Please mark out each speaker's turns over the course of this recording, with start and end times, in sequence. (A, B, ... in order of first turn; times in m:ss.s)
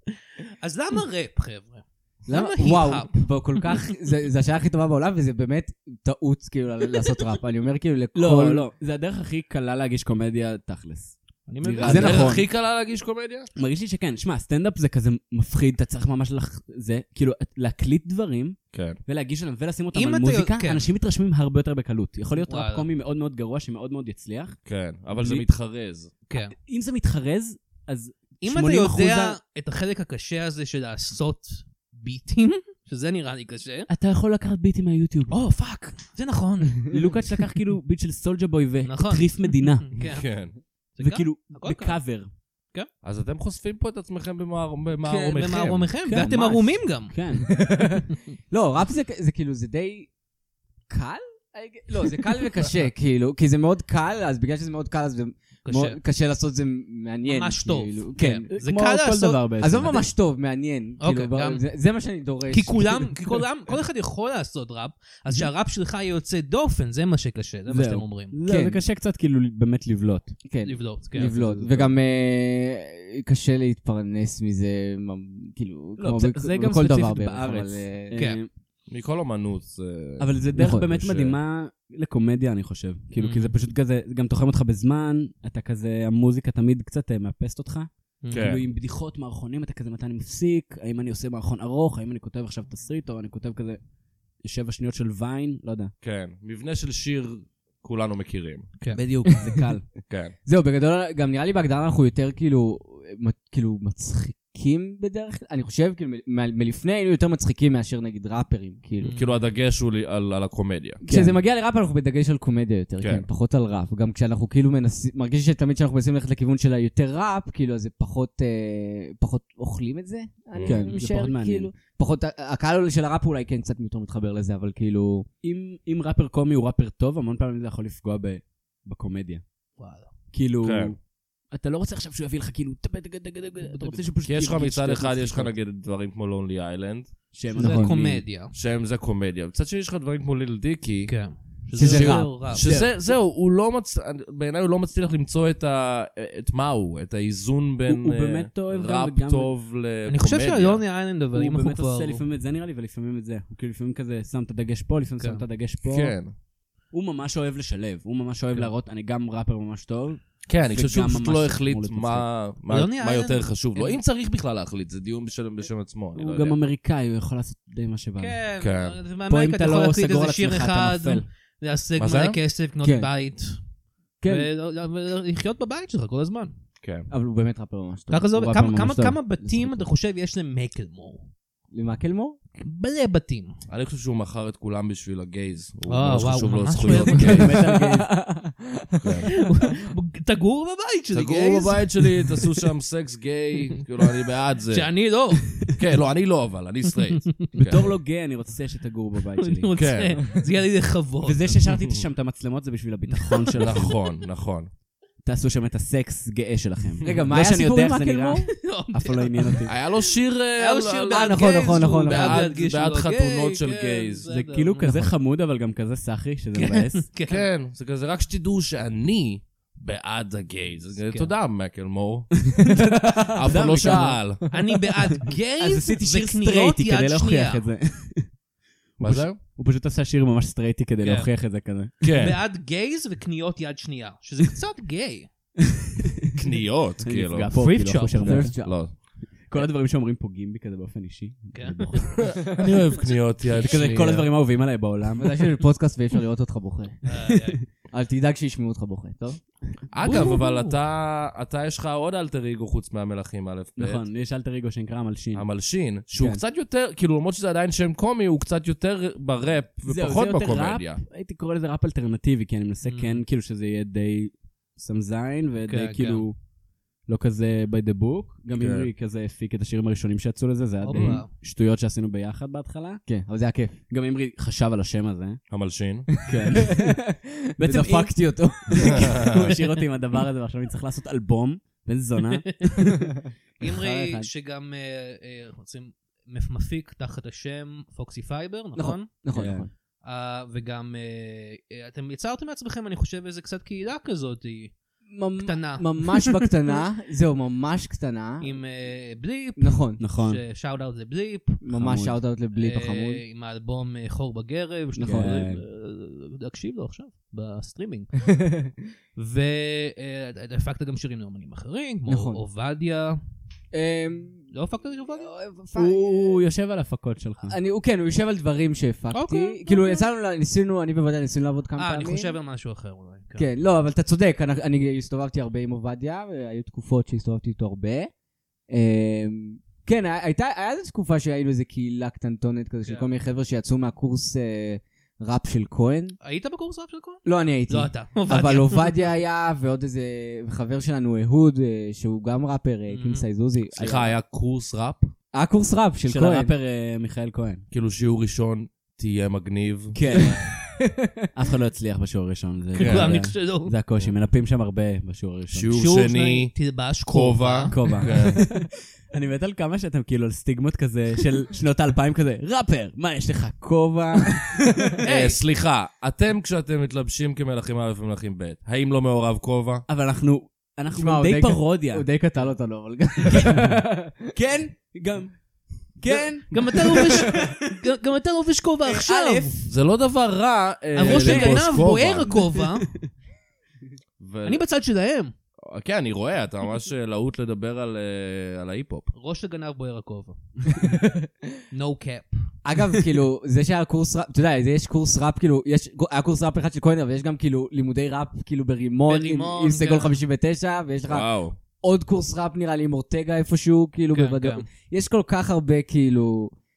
0:00.6-0:03.8 A
0:02.3-0:08.6 B
0:08.2-0:12.3 C
0:11.5-0:12.3 A
0:11.8-0:12.4 B
0:11.8-0:13.5 D
0:13.6-0:24.6 C
0:18.7-0:19.0 D
0:19.9-0:20.9 A
0:22.4-0:22.9 A
0:24.7-0:26.1 D
0:25.2-0:25.5 C
0:26.3-0:26.6 A
0:26.4-0:29.4 C
0:28.4-0:33.9 A
0:33.9-0:35.4 C
0:35.3-0:37.1 A
0:36.9-0:39.9 C
0:38.8-0:40.3 A
0:40.0-0:40.6 D
0:41.0-0:42.0 A
0:41.0-0:42.3 C
0:43.0-0:45.9 D
0:45.0-0:47.2 A
0:46.0-0:47.5 C
0:47.4-0:50.1 B
0:50.9-0:58.5 B
0:55.6-0:56.0 A
0:57.2-1:00.1 A
0:58.5-1:00.1 C
0:59.6-1:03.2 B
1:01.0-1:01.6 A
1:02.5-1:08.4 A
1:07.7-1:10.4 C
1:08.5-1:08.8 B
1:10.5-1:18.2 B
1:10.6-1:11.3 A
1:11.2-1:12.0 C
1:16.0-1:18.5 C
1:18.2-1:18.4 A
1:18.9-1:21.4 D
1:20.2-1:33.8 C
1:20.6-1:20.9 B
1:23.2-1:23.6 A
1:28.2-1:28.6 A
1:28.3-1:28.6 D
1:34.4-1:35.9 C
1:36.0-1:38.7 D
1:38.9-1:39.8 C
1:39.3-1:39.7 B
1:40.1-1:40.4 D
1:40.4-1:49.1 B
1:49.0-1:49.4 A
1:49.1-1:51.0 D
1:51.0-2:05.3 B
1:51.0-1:51.4 C
1:53.0-1:53.2 D
2:00.5-2:01.0 D
2:00.6-2:01.7 C
2:05.4-2:09.4 C
2:09.8-2:10.1 A
2:10.3-2:11.0 C
2:10.6-2:11.0 D
2:11.5-2:15.5 C
2:13.7-2:14.0 A
2:14.2-2:17.1 D
2:17.3-2:18.2 C
2:17.6-2:17.9 B
2:17.6-2:18.5 A
2:18.5-2:21.1 D
2:21.1-2:22.7 A
2:21.8-2:22.3 B
2:21.8-2:30.8 D
2:22.5-2:23.0 C
2:27.9-2:29.5 C
2:30.1-2:32.2 A
2:31.3-2:36.2 C
2:35.8-2:36.3 D
2:36.9-2:42.3 C
2:40.5-2:46.6 D
2:42.7-2:44.0 A
2:46.2-2:48.4 C
2:48.2-2:53.6 A
2:48.6-2:49.0 D
2:49.3-2:51.3 C
2:52.0-2:52.4 D
2:52.8-2:53.1 B
2:54.2-2:54.5 B
2:54.2-2:56.5 A
2:56.8-2:57.1 D
2:57.1-2:58.3 B
2:58.1-3:01.3 A
2:58.3-2:59.2 C
2:59.4-2:59.9 B
3:01.7-3:02.4 B
3:02.6-3:03.6 A
3:03.7-3:07.6 D
3:05.9-3:07.5 A
3:07.1-3:08.1 C
3:07.4-3:09.4 B
3:09.0-3:09.3 D
3:09.3-3:12.4 A
3:11.1-3:15.0 D
3:14.7-3:15.6 A
3:15.6-3:18.0 D
3:17.5-3:19.7 C
3:19.4-3:21.6 A
3:19.8-3:20.4 D
3:21.2-3:24.0 C
3:23.1-3:23.9 A
3:23.6-3:24.7 D
3:25.2-3:29.8 C
3:27.0-3:28.5 B
3:28.6-3:30.0 A
3:29.7-3:34.3 D
3:30.6-3:35.1 A
3:31.1-3:32.5 B
3:34.3-3:37.0 C
3:36.5-3:37.5 A
3:37.3-3:42.6 D
3:42.6-3:44.4 C
3:42.7-3:44.1 B
3:43.3-3:44.4 D
3:44.5-3:47.7 A
3:45.6-3:48.3 C
3:49.0-3:51.9 C
3:49.0-3:49.4 D
3:51.0-3:51.3 A
3:52.0-3:52.4 D
3:52.1-3:55.3 A
3:55.6-3:56.4 C
3:56.3-3:57.5 D
3:57.0-3:58.6 C
3:57.5-3:58.5 A
3:58.2-3:58.8 B
3:58.3-3:59.0 D
3:59.5-4:02.4 C
4:01.5-4:02.2 A
4:02.2-4:04.3 D
4:03.4-4:03.9 A
4:03.6-4:05.5 C
4:05.2-4:07.0 B
4:07.0-4:07.6 A
4:07.9-4:09.4 B
4:09.9-4:14.1 D
4:10.0-4:10.8 A
4:13.8-4:15.5 C
4:15.3-4:21.0 D
4:19.9-4:26.4 C
4:22.8-4:23.2 A
4:25.7-4:26.3 A
4:27.1-4:33.0 C
4:28.6-4:28.9 D
4:30.8-4:31.3 A
4:30.9-4:31.2 D
4:33.1-4:33.8 B
4:33.9-4:35.4 C
4:35.5-4:36.2 D
4:36.2-4:37.0 C
4:36.3-4:39.3 B
4:37.6-4:42.9 C
4:38.9-4:39.5 D
4:42.3-4:43.0 A
4:42.8-4:44.3 B
4:43.6-4:49.1 A
4:48.8-4:49.7 B
4:49.3-4:49.7 C
4:50.0-4:54.7 A
4:55.1-4:58.6 B
4:55.4-4:56.3 A
4:58.4-5:01.6 A
4:59.6-5:00.0 B
5:00.0-5:00.4 C
5:01.6-5:03.2 B
5:01.7-5:02.2 C
5:02.5-5:08.1 A
5:05.0-5:05.6 C
5:05.0-5:05.3 B
5:08.2-5:08.8 B
5:09.2-5:13.2 A
5:12.1-5:12.4 B
5:13.7-5:14.5 B
5:14.5-5:15.3 A
5:15.2-5:16.4 B
5:15.8-5:17.6 C
5:17.5-5:22.3 B
5:19.1-5:20.1 A
5:21.8-5:23.5 A
5:23.4-5:28.1 B
5:28.7-5:36.2 B
5:32.8-5:33.1 A
5:36.2-5:39.0 A
5:37.2-5:44.2 B
5:42.9-5:43.2 A
5:43.7-5:45.1 D
5:45.3-5:46.5 B
5:46.0-5:47.6 C
5:47.7-5:50.0 D
5:49.9-5:50.4 C
5:50.1-5:50.5 A
5:50.3-5:51.3 B
5:51.4-5:55.7 C
5:52.7-5:53.7 A
5:52.8-5:53.2 D
5:55.5-5:56.6 D
5:55.7-5:57.8 A
5:57.1-5:58.4 D
5:57.7-6:05.0 C
6:05.0-6:05.4 A
6:05.0-6:09.8 D
6:09.9-6:12.1 C
6:10.9-6:14.4 B
6:13.2-6:13.8 C
6:14.3-6:15.4 C
6:16.0-6:17.6 C
6:16.5-6:19.6 A
6:18.8-6:19.7 C
6:19.7-6:22.5 D
6:21.0-6:22.9 A
6:21.0-6:21.8 C
6:22.3-6:22.8 C
6:24.2-6:24.6 D
6:24.4-6:25.3 A
6:25.6-6:29.1 D
6:29.1-6:30.4 A
6:30.7-6:31.3 B
6:31.7-6:32.4 A
6:32.6-6:41.3 B
6:39.1-6:40.2 A
6:41.1-6:41.6 D
6:41.8-6:46.5 B
6:44.1-6:44.6 A